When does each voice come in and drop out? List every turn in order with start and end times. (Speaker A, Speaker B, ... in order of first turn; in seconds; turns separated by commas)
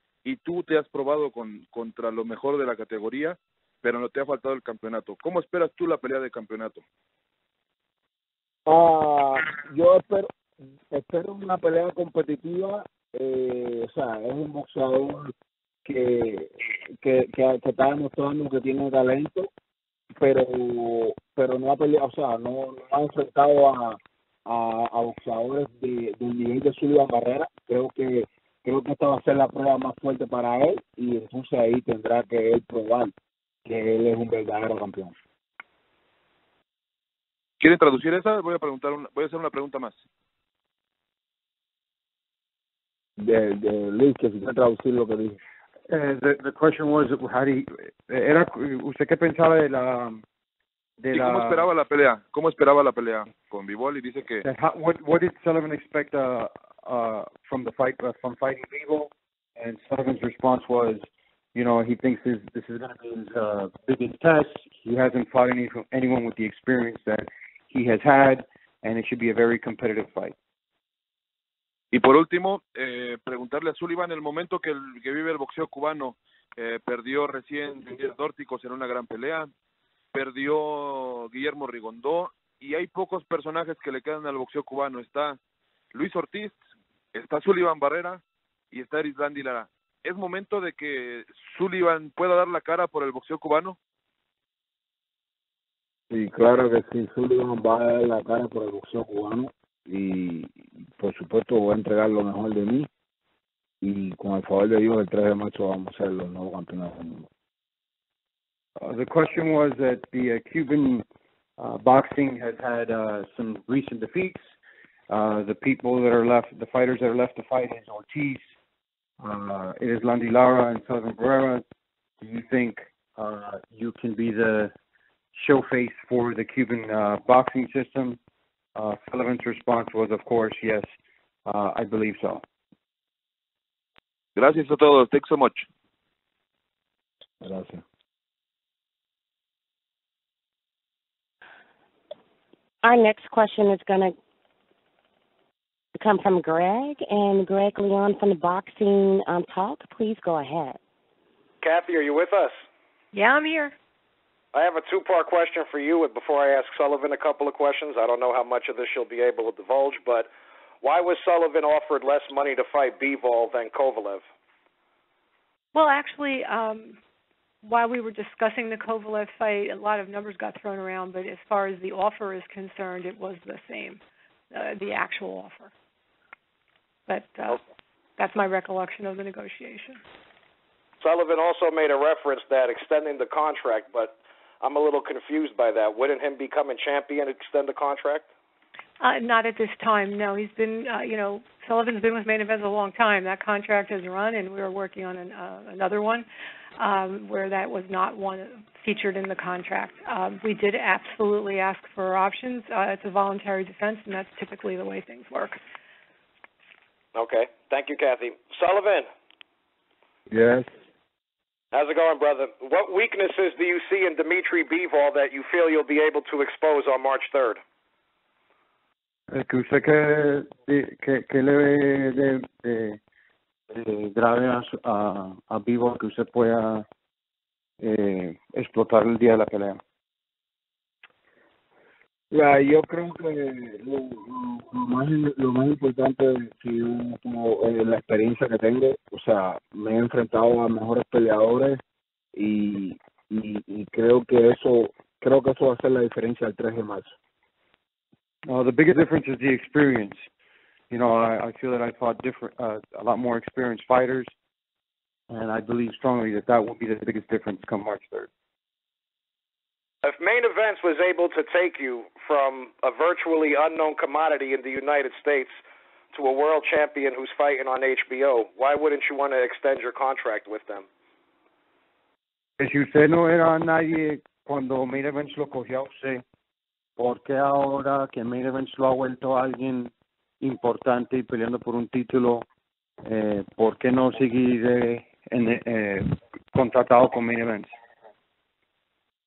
Speaker A: 0.2-6.8, Speaker B: 8.7-10.3, Speaker B: 10.9-15.3, Speaker B: 15.8-19.5, Speaker B: 20.2-33.1, Speaker B: 33.6-35.1, Speaker A: 37.6-40.0, Speaker B: 43.2-45.4, Speaker C: 45.9-50.2, Speaker C: 51.0-51.7, Speaker A: 51.1-54.5, Speaker C: 54.5-70.3, Speaker A: 71.9-79.5, Speaker A: 80.1-85.4, Speaker A: 85.9-86.6, Speaker A: 87.1-93.8, Speaker B: 96.1-102.9, Speaker B: 103.8-107.3, Speaker C: 108.8-111.0, Speaker C: 111.6-114.4, Speaker C: 115.1-118.5, Speaker C: 119.2-121.6, Speaker C: 122.2-124.7, Speaker C: 125.3-128.2, Speaker C: 128.8-130.9, Speaker C: 131.5-132.4, Speaker A: 134.3-135.7, Speaker B: 137.4-137.8, Speaker D: 142.8-144.1, Speaker D: 145.9-150.8, Speaker E: 151.6-152.6, Speaker F: 153.1-153.7, Speaker E: 154.5-160.3, Speaker E: 160.8-164.2, Speaker F: 165.7-167.0, Speaker F: 167.6-174.0, Speaker F: 174.5-175.7, Speaker F: 177.1-177.6, Speaker F: 178.2-180.0, Speaker E: 181.0-188.3, Speaker F: 189.0-196.3, Speaker F: 196.8-205.6, Speaker E: 207.2-209.1, Speaker B: 210.3-210.7, Speaker E: 211.7-217.6, Speaker C: 219.3-223.0, Speaker C: 223.7-226.9, Speaker C: 227.8-229.8, Speaker B: 232.3-241.8, Speaker B: 242.3-247.1, Speaker C: 248.5-250.3, Speaker C: 250.9-254.3, Speaker C: 255.3-258.3, Speaker E: 260.0-265.6, Speaker E: 266.1-270.9, Speaker C: 272.6-276.2, Speaker C: 277.0-282.5, Speaker C: 283.0-287.7